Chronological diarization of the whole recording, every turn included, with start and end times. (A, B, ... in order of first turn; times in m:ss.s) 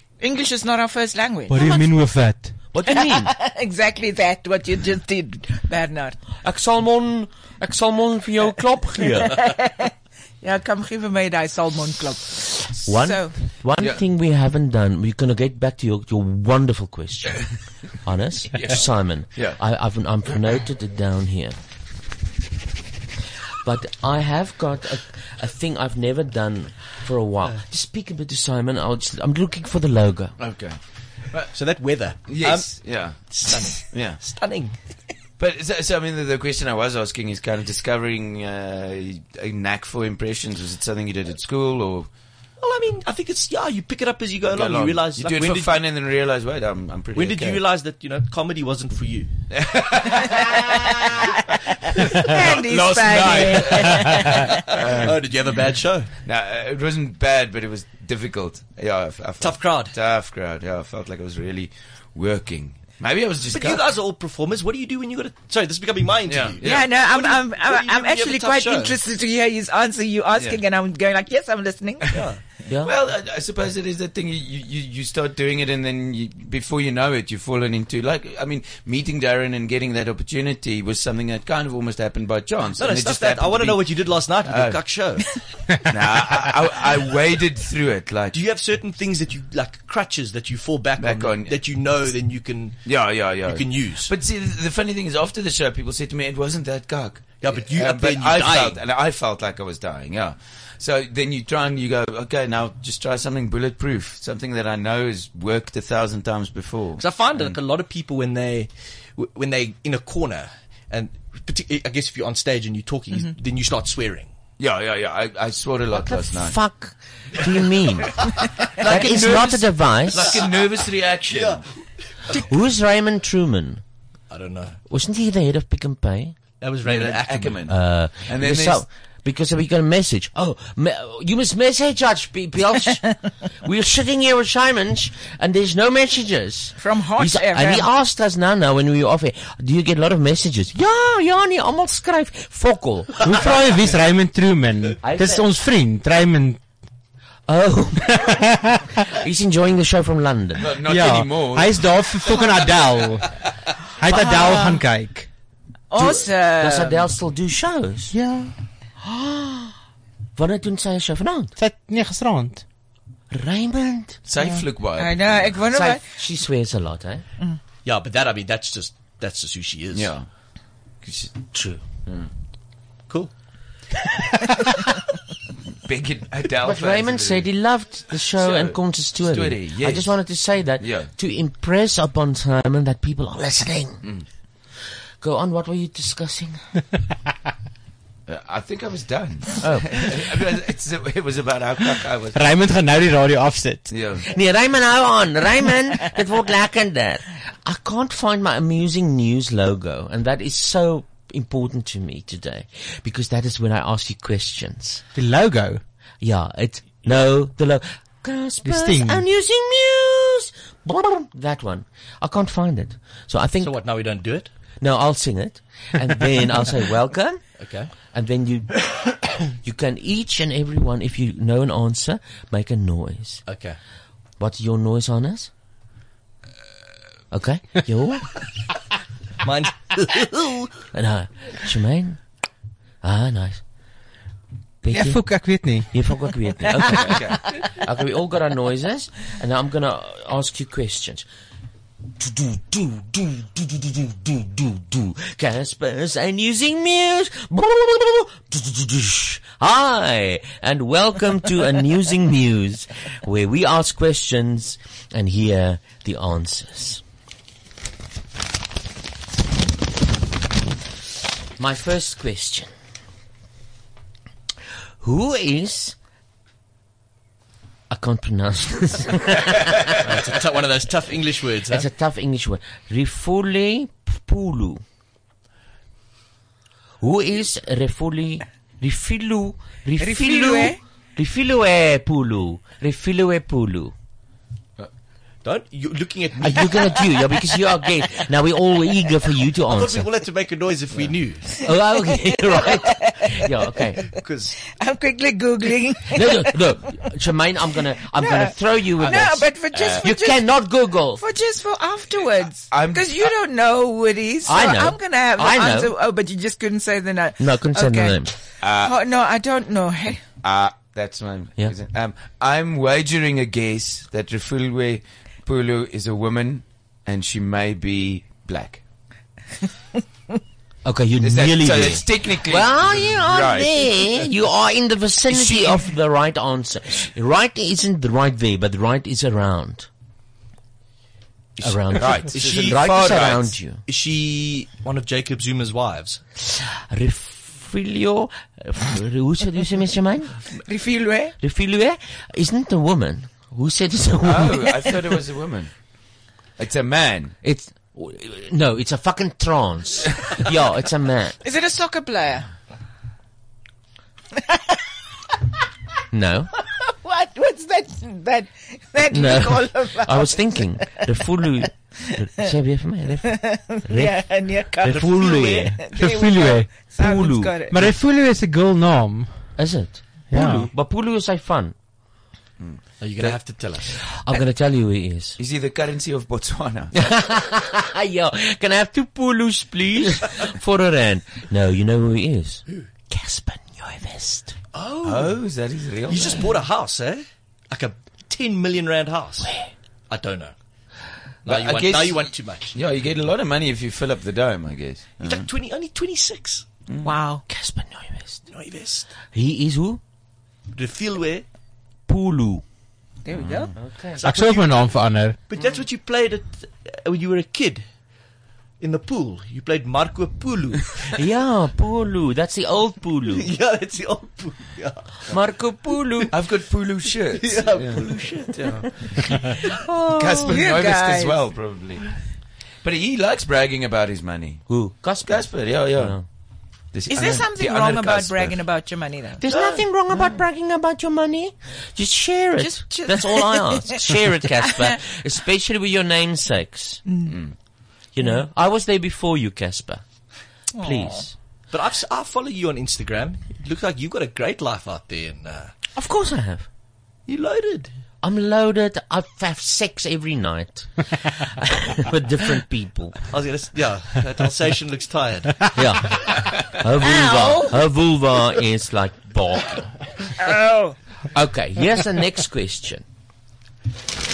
0:00.2-0:01.9 A
0:01.5-0:02.5 B
0:02.7-0:03.3 C
0:02.9-0:06.2 A
0:06.4-0:09.4 C
0:09.2-0:09.9 A
0:10.4-0:13.4 A
0:12.8-0:17.5 C
0:18.0-0:21.6 C
0:18.5-0:19.6 D
0:23.6-0:30.4 C
0:30.4-0:31.6 D
0:31.5-0:34.8 E
0:32.2-0:34.2 D
0:35.4-0:42.1 D
0:42.6-0:45.8 E
0:44.5-0:47.6 D
0:47.1-0:49.3 E
0:49.5-0:51.4 D
0:51.9-0:55.6 D
0:52.2-0:54.5 A
0:54.9-0:56.1 E
0:56.2-1:03.9 D
0:59.4-0:59.9 E
1:03.5-1:09.0 E
1:06.2-1:07.0 D
1:06.6-1:12.2 A
1:12.1-1:12.4 E
1:12.8-1:25.0 D
1:22.8-1:25.3 E
1:25.9-1:28.4 D
1:28.3-1:34.1 E
1:31.0-1:31.9 D
1:32.8-1:47.6 D
1:37.4-1:38.8 E
1:47.0-1:54.3 E
1:54.6-1:56.6 D
1:55.9-1:58.2 C
1:58.8-2:01.7 D
1:58.9-2:00.4 C
2:00.3-2:00.5 E
2:01.3-2:01.6 E
2:02.4-2:03.8 C
2:04.3-2:04.8 E
2:04.9-2:06.3 C
2:06.6-2:07.6 E
2:06.8-2:08.8 D
2:07.7-2:23.3 C
2:16.8-2:17.9 A
2:23.2-2:26.6 B
2:25.0-2:25.4 C
2:27.5-2:28.3 C
2:29.2-2:30.6 C
2:30.6-2:31.8 D
2:30.8-2:33.3 B
2:34.0-2:35.3 B
2:34.1-2:34.8 A
2:35.9-2:37.1 A
2:36.0-2:38.2 C
2:38.1-2:38.5 B
2:39.0-2:39.7 C
2:40.4-2:41.5 C
2:41.6-2:42.6 B
2:43.3-2:44.2 C
2:44.2-2:45.5 D
2:45.0-2:46.0 A
2:45.7-2:47.2 C
2:47.8-2:50.1 E
2:49.9-2:50.3 D
2:51.0-2:51.5 D
2:51.5-2:51.8 C
2:55.8-2:57.5 D
2:56.6-3:04.0 C
2:58.4-3:00.2 D
3:00.8-3:01.1 D
3:05.2-3:06.6 C
3:08.3-3:12.5 D
3:09.6-3:10.1 C
3:12.3-3:13.9 B
3:13.9-3:14.2 D
3:14.3-3:25.0 C
3:25.1-3:25.8 B
3:26.2-3:33.8 C
3:28.6-3:29.2 B
3:33.6-3:34.5 E
3:34.8-3:37.4 C
3:37.6-3:37.9 E
3:38.0-3:39.0 C
3:39.6-3:43.4 C
3:43.4-3:43.8 E
3:44.4-3:45.5 C
3:47.3-3:48.3 C
3:49.4-3:50.7 E
3:50.9-3:52.2 C
3:53.0-3:53.6 C
3:54.8-4:01.2 C
3:54.9-3:55.9 B
3:57.0-3:57.4 D
4:02.2-4:17.0 C
4:21.6-4:22.7 C
4:25.0-4:25.9 C
4:27.9-4:29.7 C
4:30.0-4:31.9 E
4:31.7-4:34.8 C
4:37.0-4:43.9 C
4:40.0-4:40.8 A
4:45.4-4:47.2 E
4:46.4-4:50.1 C
4:49.6-4:51.6 E
4:51.6-4:54.0 C
4:52.2-4:53.3 A
4:54.2-4:54.6 E
4:54.7-4:56.7 A
4:56.1-5:01.2 C
4:58.1-5:00.6 A
4:59.7-5:00.0 D
5:01.2-5:10.2 A
5:02.7-5:03.3 D
5:04.5-5:05.9 C
5:07.4-5:08.3 C
5:08.6-5:08.9 D
5:10.4-5:18.8 D
5:20.8-5:29.9 C
5:21.2-5:24.3 D
5:25.3-5:25.8 D
5:31.6-5:33.8 C
5:31.7-5:33.5 D
5:32.3-5:36.2 E
5:36.9-5:40.4 C
5:40.6-5:41.3 A
5:41.4-5:44.9 C
5:44.2-5:45.7 D
5:46.6-5:47.4 D
5:47.4-5:51.4 C
5:51.4-5:52.5 A
5:56.1-5:56.5 C
5:56.8-6:01.0 A
5:59.1-6:05.8 C
6:03.3-6:07.8 A
6:04.9-6:05.8 E
6:05.9-6:06.7 B
6:07.0-6:07.6 C
6:07.7-6:09.6 B
6:09.6-6:11.7 C
6:10.3-6:10.7 B
6:12.6-6:13.6 D
6:13.0-6:13.9 E
6:14.2-6:15.4 C
6:15.4-6:17.0 D
6:17.0-6:24.5 C
6:24.7-6:25.4 E
6:25.0-6:26.6 D
6:26.1-6:29.6 E
6:30.1-6:30.5 E
6:31.4-6:32.8 E
6:31.4-6:35.5 D
6:35.2-6:36.7 E
6:36.9-6:37.1 D
6:37.0-6:37.4 A
6:37.5-6:38.4 C
6:38.5-6:39.1 E
6:39.3-6:40.0 C
6:40.7-6:41.4 E
6:42.1-6:42.6 C
6:43.2-6:43.8 A
6:43.3-6:43.7 D
6:43.8-6:44.2 C
6:44.2-6:44.9 E
6:44.2-6:45.4 B
6:45.5-6:47.9 E
6:48.8-6:50.9 E
6:51.2-6:53.5 C
6:53.3-6:55.4 E
6:55.3-6:56.3 C
6:56.3-6:58.0 D
6:57.3-6:59.5 E
7:00.0-7:02.0 D
7:00.1-7:01.4 A
7:02.8-7:04.7 D
7:04.7-7:06.2 C
7:05.2-7:06.2 D
7:06.9-7:08.6 D
7:07.1-7:09.4 A
7:09.4-7:17.0 C
7:09.5-7:09.8 D
7:12.6-7:14.0 A
7:17.0-7:17.4 A
7:17.3-7:17.5 D
7:18.1-7:20.0 C
7:20.7-7:21.2 A
7:20.8-7:21.3 C
7:21.7-7:25.7 E
7:26.0-7:26.7 C
7:27.2-7:27.9 E
7:28.2-7:33.2 C
7:33.3-7:35.7 E
7:35.7-7:39.9 C
7:37.0-7:37.8 A
7:40.4-7:41.0 A
7:41.3-7:43.0 C